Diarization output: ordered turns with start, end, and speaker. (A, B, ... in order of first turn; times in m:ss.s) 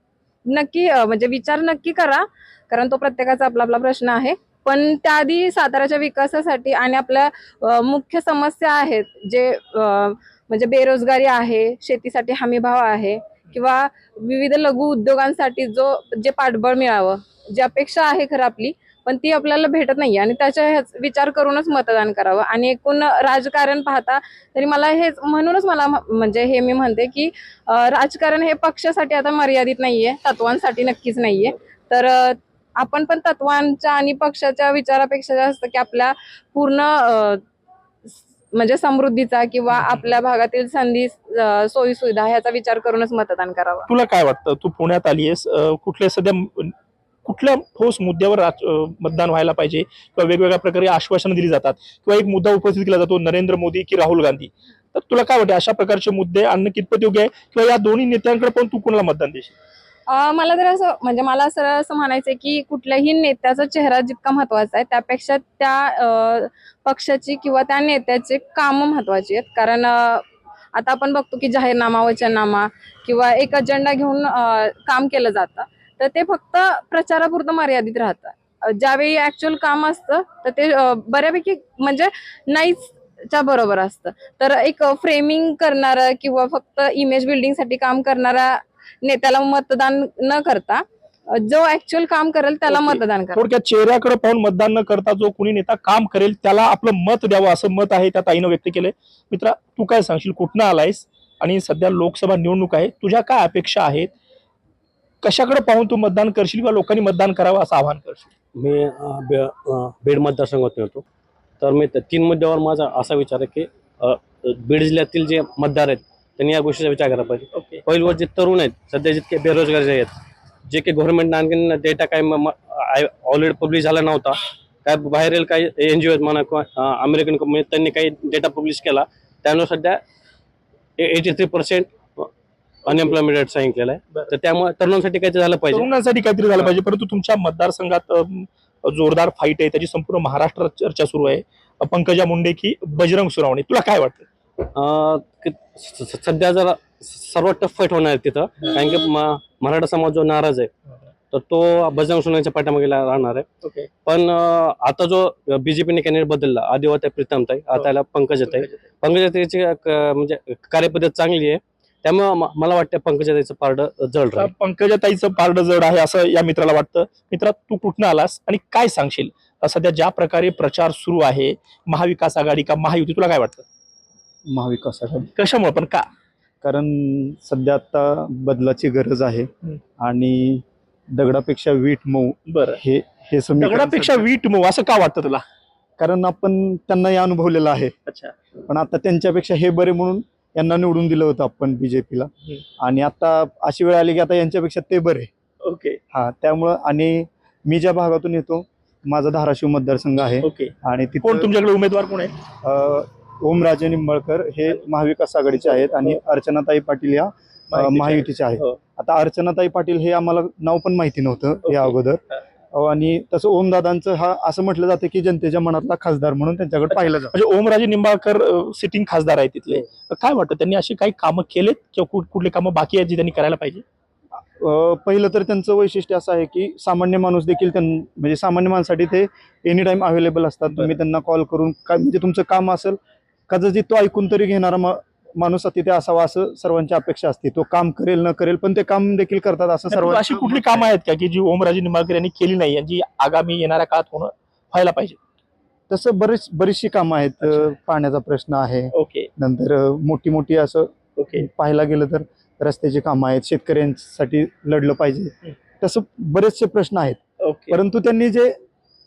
0:00.5-0:37.4 A
0:38.1-0:43.9 A
0:43.9-0:46.7 B
0:47.2-0:59.5 B
1:00.1-1:30.8 A
1:31.3-1:33.4 A
1:32.7-1:44.1 B
1:45.2-1:48.3 B
1:48.6-1:51.0 C
1:51.6-2:00.1 C
1:57.5-1:57.8 B
2:00.7-2:10.0 C
2:11.0-2:12.3 C
2:12.8-2:15.9 C
2:15.7-2:24.2 B
2:24.7-2:30.7 C
2:28.6-2:28.9 B
2:31.3-2:33.4 C
2:33.6-2:33.9 B
2:34.0-2:44.5 C
2:37.7-2:38.7 B
2:44.3-2:53.6 B
2:54.5-2:55.3 D
2:55.4-2:56.0 B
2:56.6-3:00.6 D
3:01.1-3:04.2 D
3:02.5-3:02.8 B
3:03.6-3:05.4 B
3:06.0-3:07.9 D
3:08.0-3:08.3 B
3:08.7-3:12.3 D
3:12.8-3:15.3 D
3:15.6-3:16.0 B
3:16.1-3:21.5 D
3:20.4-3:20.7 B
3:21.2-3:22.3 B
3:22.6-3:32.2 D
3:27.7-3:28.7 B
3:32.7-3:37.3 D
3:36.9-3:43.8 B
3:44.6-4:00.8 D
3:59.9-4:05.2 B
4:05.9-4:17.2 D
4:08.9-4:09.3 B
4:11.2-4:11.5 B
4:17.4-4:17.8 B
4:17.7-4:18.6 D